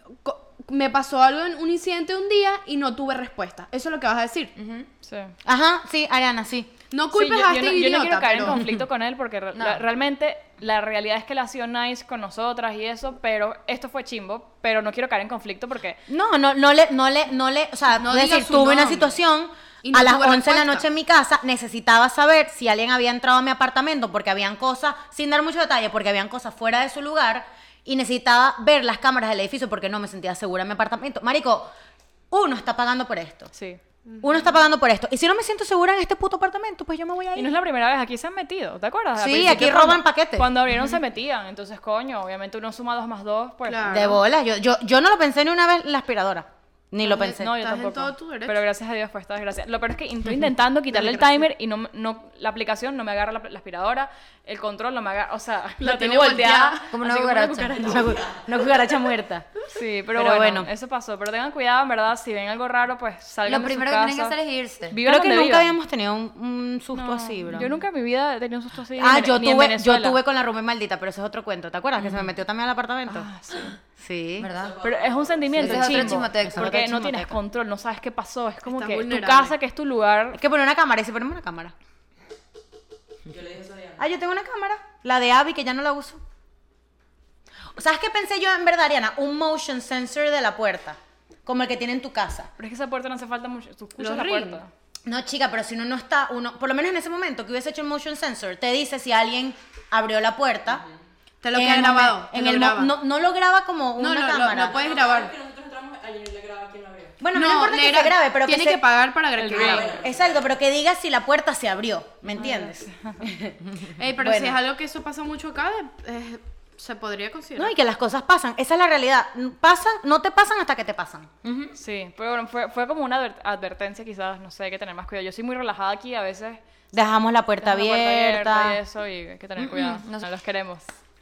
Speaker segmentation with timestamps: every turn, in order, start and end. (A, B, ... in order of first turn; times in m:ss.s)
0:00.2-0:04.5 A
0:04.6-0:04.9 B
0:05.0-0:05.3 C
0:05.4-0:06.7 D
0:06.9-0:08.6 A
0:07.1-0:16.0 C
0:08.5-0:08.8 D
0:09.5-0:09.8 B
0:16.1-0:31.7 D
0:18.0-0:19.1 A
0:19.8-0:20.8 A
0:32.3-0:33.5 D
0:33.5-0:33.8 C
0:34.1-0:34.4 A
0:34.2-0:37.5 D
0:37.3-0:44.1 C
0:39.2-0:40.5 D
0:43.6-0:44.2 A
0:43.9-0:47.5 D
0:47.0-0:48.6 A
0:47.4-0:58.0 C
0:50.9-0:51.3 D
0:55.8-0:56.9 A
0:56.9-0:58.0 B
0:57.8-0:59.6 D
0:59.7-1:04.4 C
1:00.1-1:00.7 D
1:03.4-1:05.0 B
1:04.9-1:05.7 C
1:05.0-1:07.7 D
1:06.9-1:10.2 C
1:09.0-1:13.3 D
1:12.0-1:12.3 C
1:13.1-1:13.8 C
1:14.0-1:14.5 D
1:14.4-1:14.8 B
1:14.6-1:15.8 E
1:14.8-1:20.4 C
1:15.6-1:17.3 B
1:16.4-1:17.1 D
1:18.6-1:19.5 A
1:20.3-1:21.7 D
1:23.3-1:24.0 E
1:24.0-1:26.2 D
1:27.7-1:32.5 D
1:32.6-1:34.7 C
1:34.0-1:34.6 A
1:35.0-1:40.8 D
1:41.4-1:42.9 A
1:41.5-1:44.8 D
1:44.0-1:45.3 A
1:44.6-1:47.2 E
1:47.2-1:48.8 D
1:47.3-1:50.0 A
1:49.4-1:49.8 C
1:49.5-1:50.5 E
1:49.6-1:54.6 D
1:52.3-1:53.3 C
1:54.0-1:57.7 A
1:57.6-2:01.7 D
2:01.7-2:06.6 C
2:06.9-2:08.8 D
2:07.6-2:10.8 C
2:09.6-2:10.2 B